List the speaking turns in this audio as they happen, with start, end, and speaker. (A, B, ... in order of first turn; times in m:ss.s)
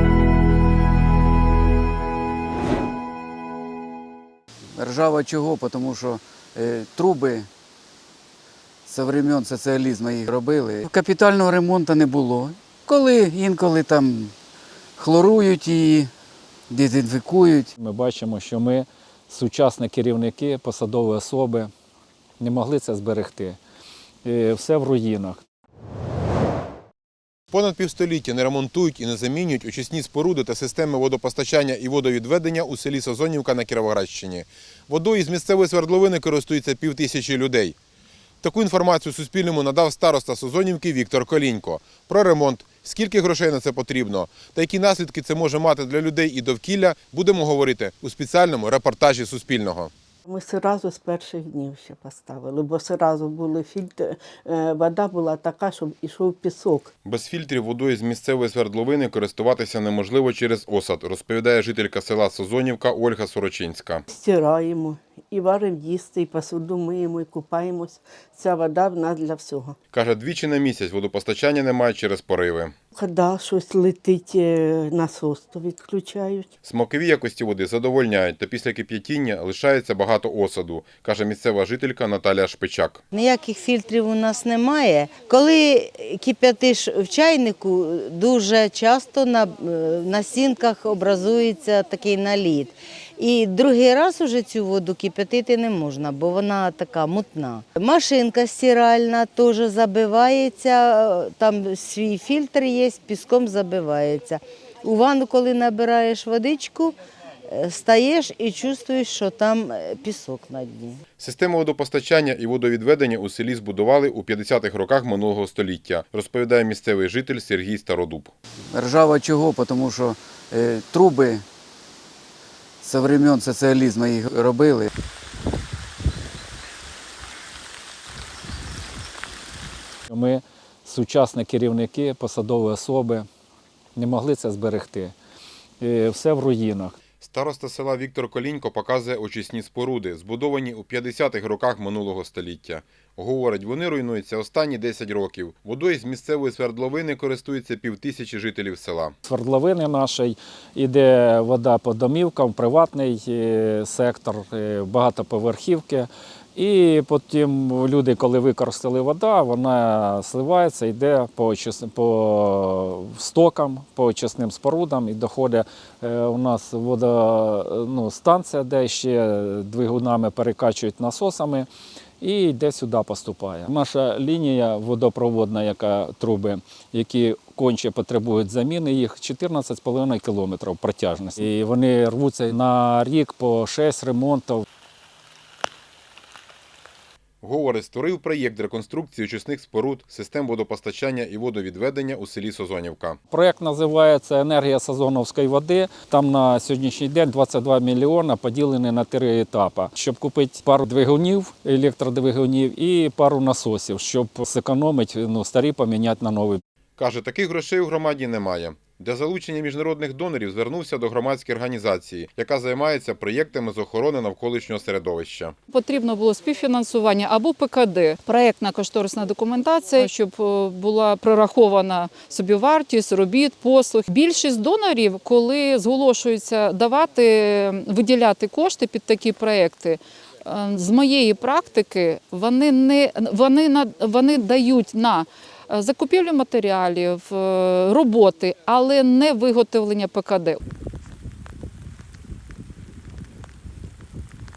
0:04.8-0:07.5 A
0:08.9-0:14.3 A
0:15.0-0:16.1 A
0:16.7-0:17.7 A
0:17.8-0:21.7 B
0:22.4-0:23.6 B
0:24.2-0:25.4 B
0:27.5-0:37.8 C
0:38.4-0:49.9 C
0:50.2-0:56.9 D
0:57.0-1:04.0 C
1:04.1-1:09.8 D
1:09.9-1:12.7 C
1:12.9-1:16.5 D
1:16.6-1:23.0 C
1:23.1-1:47.0 E
1:47.5-1:51.0 E
1:51.2-1:58.3 C
1:58.7-2:01.4 A
2:02.8-2:04.9 A
2:10.1-2:13.3 B
2:14.0-2:15.1 B
2:15.8-2:17.0 B
2:17.2-2:29.2 C
2:29.2-2:51.7 B
2:52.2-3:04.6 B
3:07.4-3:13.2 C
3:13.3-3:26.6 B
3:27.0-3:35.6 C
3:35.7-4:00.6 F